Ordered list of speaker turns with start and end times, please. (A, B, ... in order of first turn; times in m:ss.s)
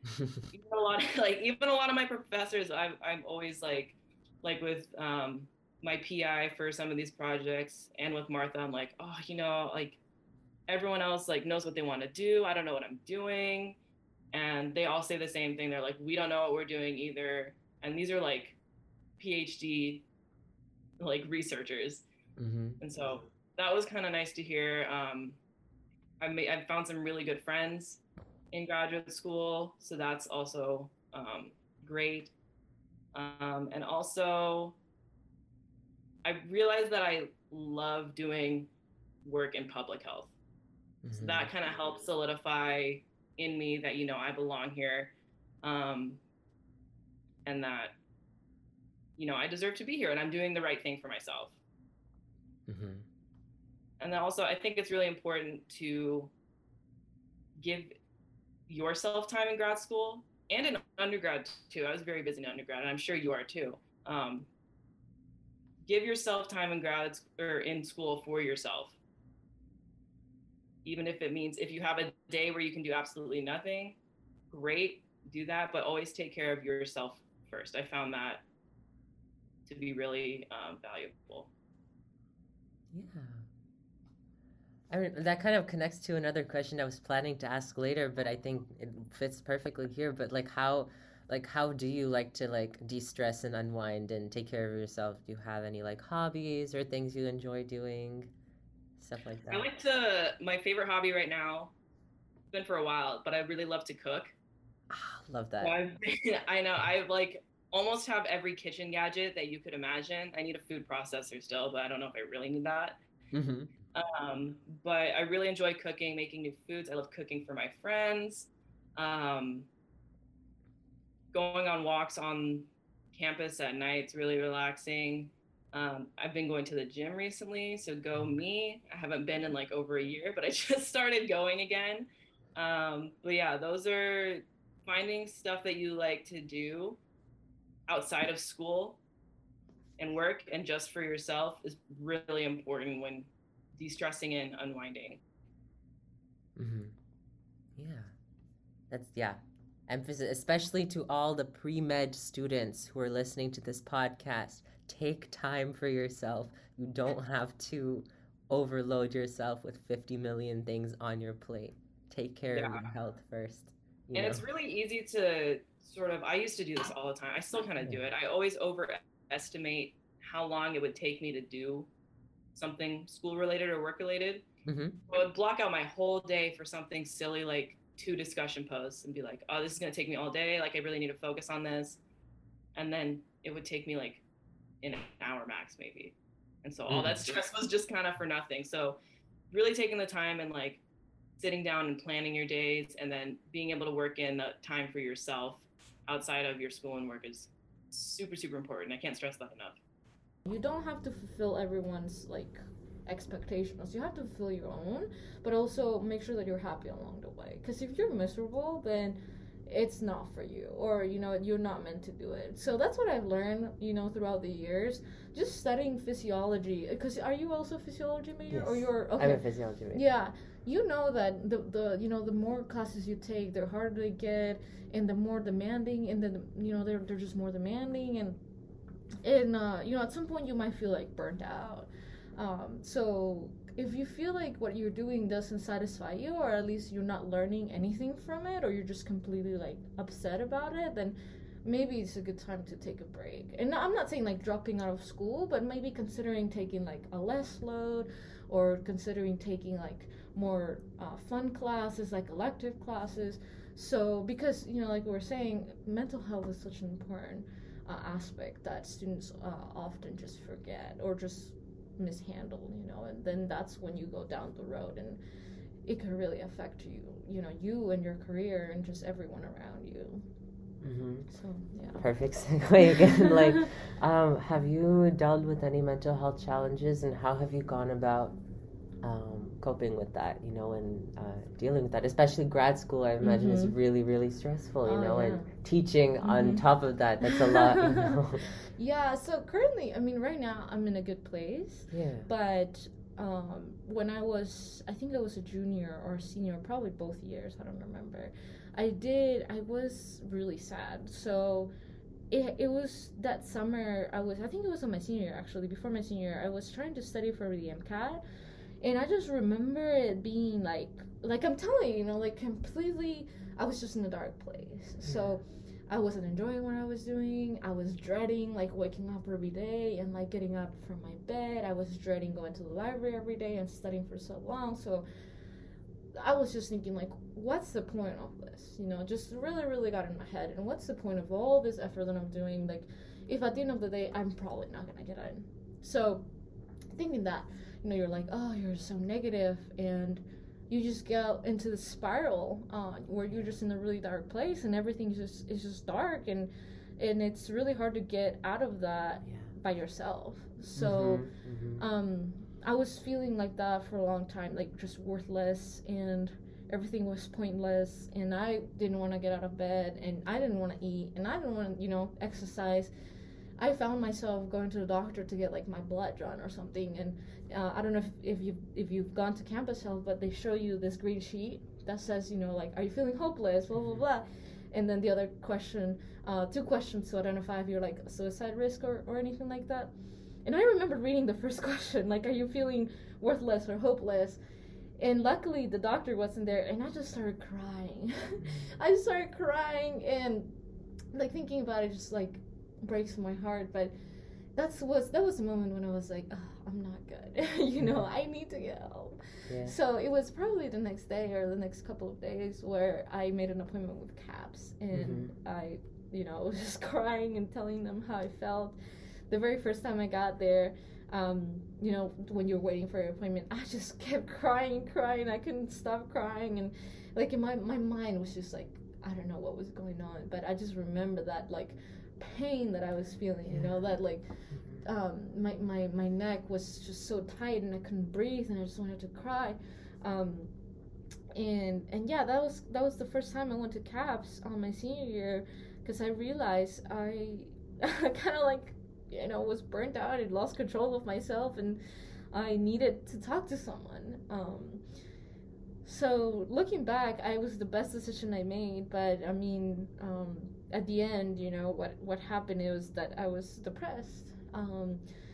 0:00.5-0:10.0 A
0:10.7-0:13.8 A
0:14.3-0:18.6 A
0:19.2-0:20.0 A
0:21.0-0:22.0 A
0:22.4-0:22.8 B
0:22.8-0:25.4 A
0:26.2-0:28.0 A
0:28.5-0:32.3 A
0:33.1-0:34.8 A
0:36.2-0:38.7 A
0:39.2-0:40.3 A
0:41.0-0:41.5 B
0:41.2-0:46.2 A
0:47.4-0:47.9 A
0:49.2-0:51.6 A
0:52.7-0:53.0 B
0:54.0-0:56.3 A
0:57.6-0:58.0 A
0:58.7-1:04.5 A
1:05.8-1:09.0 A
1:10.8-1:14.0 A
1:14.5-1:18.4 A
1:19.7-1:21.5 A
1:22.9-1:23.5 B
1:24.9-1:38.3 B
1:39.0-1:39.7 B
1:39.5-1:41.7 A
1:42.5-1:44.4 A
1:44.9-1:45.8 B
1:45.6-1:53.0 A
1:53.3-1:53.7 B
1:53.9-1:59.7 A
2:01.3-2:17.0 A
2:17.9-2:19.0 A
2:20.0-2:25.2 A
2:26.6-2:26.9 B
2:27.8-2:28.1 B
2:28.9-2:44.4 B
2:42.5-2:42.9 A
2:44.1-2:51.9 A
2:52.6-2:54.4 A
2:54.7-2:55.0 B
2:55.1-3:02.0 A
3:02.8-3:04.2 A
3:04.8-3:09.0 A
3:06.9-3:07.2 B
3:09.5-3:10.8 A
3:11.4-3:19.8 A
3:20.4-3:48.4 C
3:38.5-3:40.0 B
3:49.2-4:25.2 C
4:25.8-4:30.3 C
4:30.8-4:31.3 B
4:31.3-4:33.7 C
4:32.0-4:38.4 B
4:39.0-4:48.5 B
4:43.2-4:43.8 C
4:44.8-4:45.5 C
4:46.2-4:46.6 C
4:47.2-5:01.7 C
4:51.9-4:52.3 B
5:02.3-5:08.2 C
5:08.8-5:25.0 C
5:15.0-5:15.3 B
5:26.2-5:36.3 C
5:36.9-5:51.3 C
5:50.8-5:51.8 B
5:51.8-6:02.9 C
6:03.6-6:19.9 C
6:20.4-6:24.4 C
6:25.0-6:30.6 C
6:28.4-6:28.7 B
6:31.1-6:33.9 C
6:34.6-6:48.8 C
6:39.5-6:39.7 B
6:44.9-6:45.3 B
6:49.3-7:10.5 C
7:04.5-7:04.8 B
7:11.3-7:21.8 C
7:22.3-7:24.8 C
7:25.8-7:35.0 C